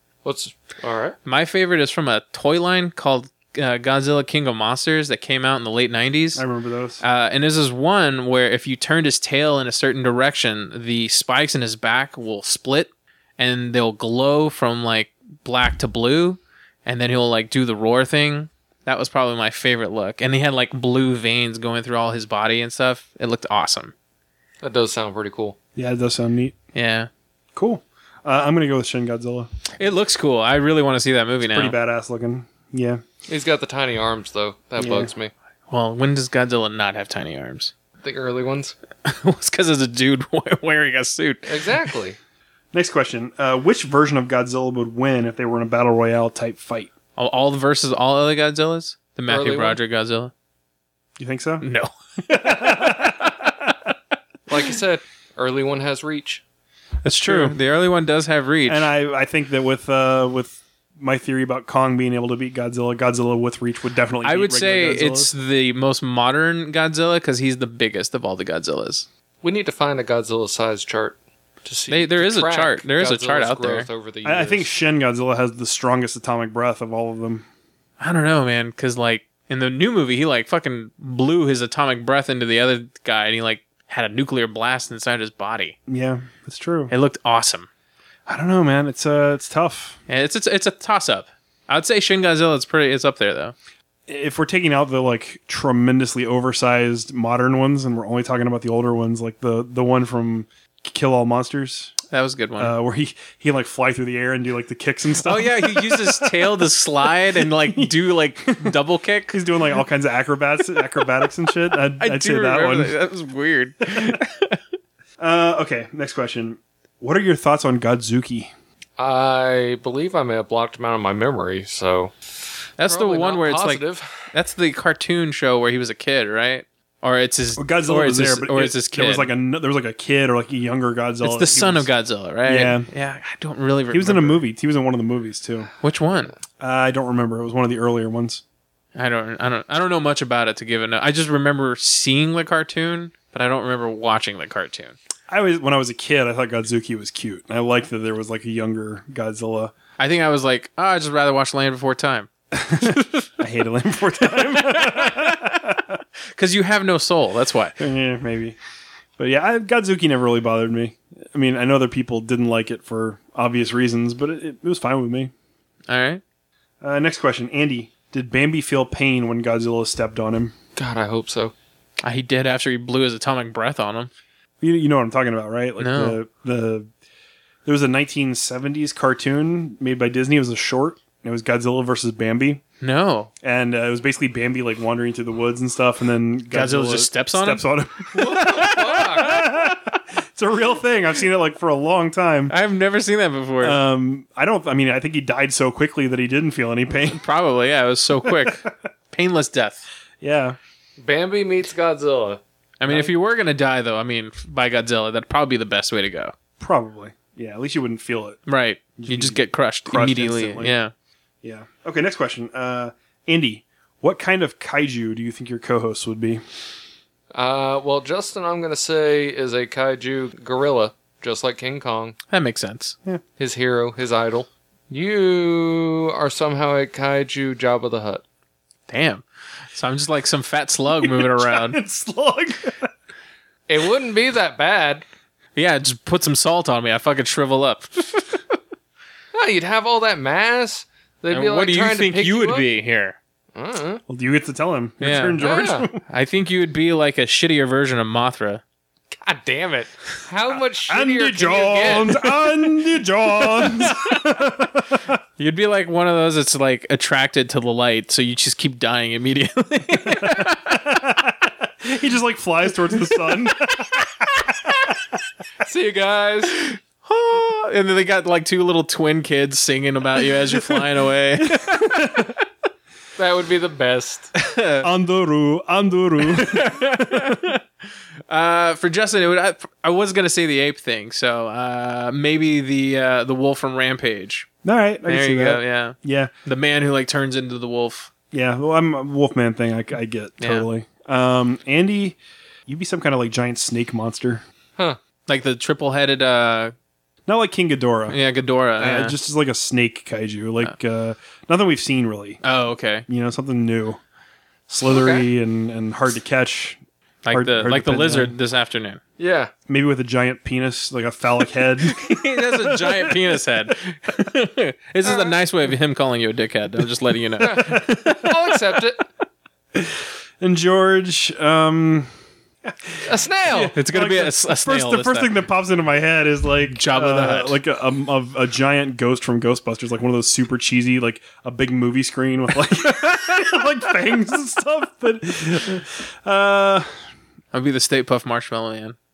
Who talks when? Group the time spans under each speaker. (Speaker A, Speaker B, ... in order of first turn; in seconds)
Speaker A: 0.2-1.2, 24.6-25.6, 33.3-35.3, 38.0-38.7, 41.5-42.2, 49.3-49.8, 54.5-56.4, 69.4-74.7, 119.0-122.1, 122.8-124.3, 170.8-171.5, 188.2-189.4, 201.0-202.4, 217.3-222.2, 223.4-228.2, 233.7-235.0, 239.3-242.6, 243.5-244.0, 245.4-245.8, 249.1-252.2, 265.6-266.6, 273.2-274.3, 304.9-305.3, 309.2-309.5, 315.0-315.3, 317.4-319.0, 323.0-323.7
Speaker B: 1.2-6.4, 7.0-23.9, 26.7-27.1, 29.8-31.7, 35.7-37.7, 39.0-41.7, 47.2-50.3, 51.6-53.5, 57.0-58.9, 64.2-69.0, 71.9-73.9, 78.0-85.8, 86.9-87.7, 90.1-93.5, 102.1-102.7, 105.2-109.4, 112.0-114.6, 122.8-129.3, 131.2-134.4, 135.8-136.3, 138.9-144.9, 150.0-153.3, 154.3-155.6, 156.3-157.8, 165.9-166.2, 172.0-174.1, 175.8-176.2, 182.8-183.3, 186.5-189.8, 192.5-193.8, 197.1-199.8, 202.8-206.3, 208.5-210.9, 222.3-222.9, 228.9-231.8, 235.6-238.4, 241.3-243.2, 245.0-245.4, 246.0-248.6, 253.5-254.2, 255.4-261.0, 266.5-272.4, 274.3-274.9, 276.2-277.6, 278.3-284.5, 285.1-288.1, 290.4-290.6, 295.3-296.7, 298.1-299.1, 302.4-303.1, 307.2-309.0, 311.8-318.4, 323.7-325.4, 326.8-327.6, 332.8-333.6, 337.5-338.9
Speaker C: 6.3-7.0, 25.8-26.6, 27.5-29.5, 31.5-33.0, 34.8-35.1, 42.7-46.9, 51.2-51.6, 52.3-53.5, 57.1-57.6, 58.6-65.3, 74.2-77.5, 85.9-86.9, 88.3-90.0, 94.1-101.9, 102.6-106.7, 107.3-108.7, 109.3-112.9, 113.9-114.2, 115.2-118.5, 127.6-131.9, 132.4-132.9, 133.9-135.7, 136.6-138.4, 145.3-149.7, 152.5-156.0, 157.8-158.6, 159.2-165.3, 166.8-170.5, 174.6-176.9, 177.6-182.6, 183.4-192.5, 193.6-197.2, 198.2-198.7, 200.2-200.6, 206.6-208.4, 209.0-210.7, 211.4-216.4, 231.0-232.9, 244.1-246.0, 250.9-255.2, 260.0-264.9, 270.5-270.8, 271.4-272.4, 274.8-277.6, 284.6-286.3, 288.3-294.4, 297.3-298.2, 298.8-302.4, 303.1-304.0, 304.7-306.8, 307.3-308.4, 309.7-313.4, 319.7-322.1, 322.6-336.9